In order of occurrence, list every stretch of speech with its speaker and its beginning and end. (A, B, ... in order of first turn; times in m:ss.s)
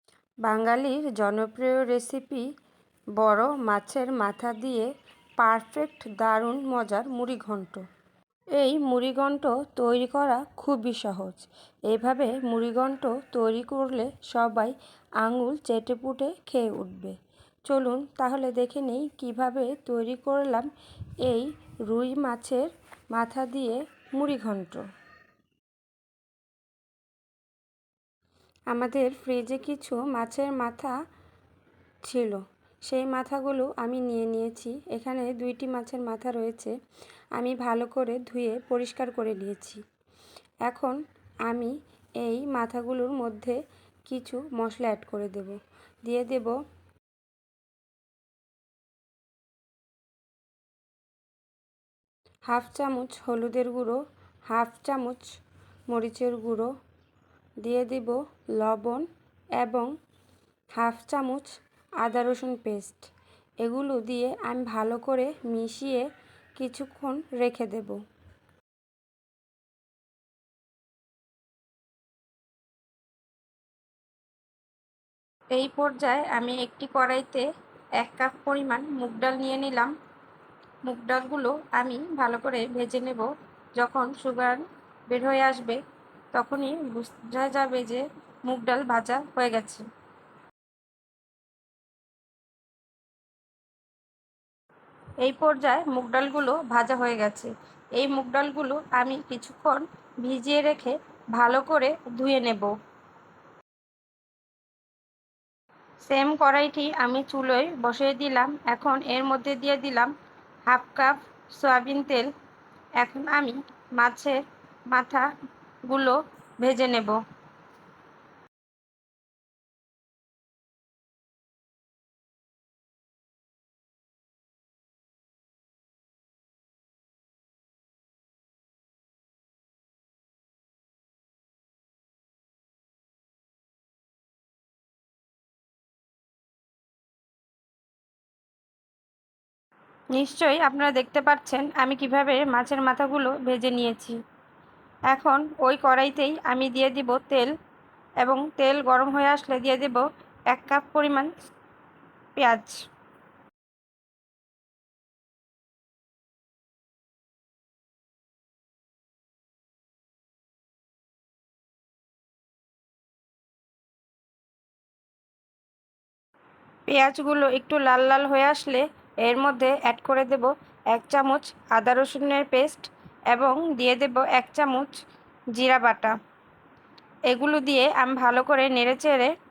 0:00.4-0:02.5 A
0:03.2-0:07.8 A
0:08.6-0:17.2 A
0:17.7-0:20.7 A
0:21.2-0:24.8 A
0:28.7-0:30.9 A
0:32.0-0:36.7 A
0:37.4-0:39.8 A
0:40.6-0:46.5 A
0:52.5-0:55.3 A
0:55.9-0:56.7 A
0:57.6-0:59.1 A
0:59.6-0:59.9 A
1:00.7-1:01.5 A
1:02.0-1:03.1 A
1:03.6-1:06.0 A
1:06.6-1:08.0 A
1:15.5-1:17.4 A
1:18.0-1:19.9 A
1:20.8-1:25.8 A
1:26.3-1:29.8 A
1:35.2-1:42.7 A
1:46.0-1:50.1 A
1:50.7-1:52.3 A
1:53.0-1:54.4 A
1:54.9-1:55.3 A
1:55.8-1:57.2 A
2:20.1-2:24.2 A
2:25.1-2:27.5 A
2:28.2-2:31.3 A
2:32.4-2:32.8 A
2:46.9-2:55.0 A
2:55.5-2:56.2 A
2:57.3-2:59.3 A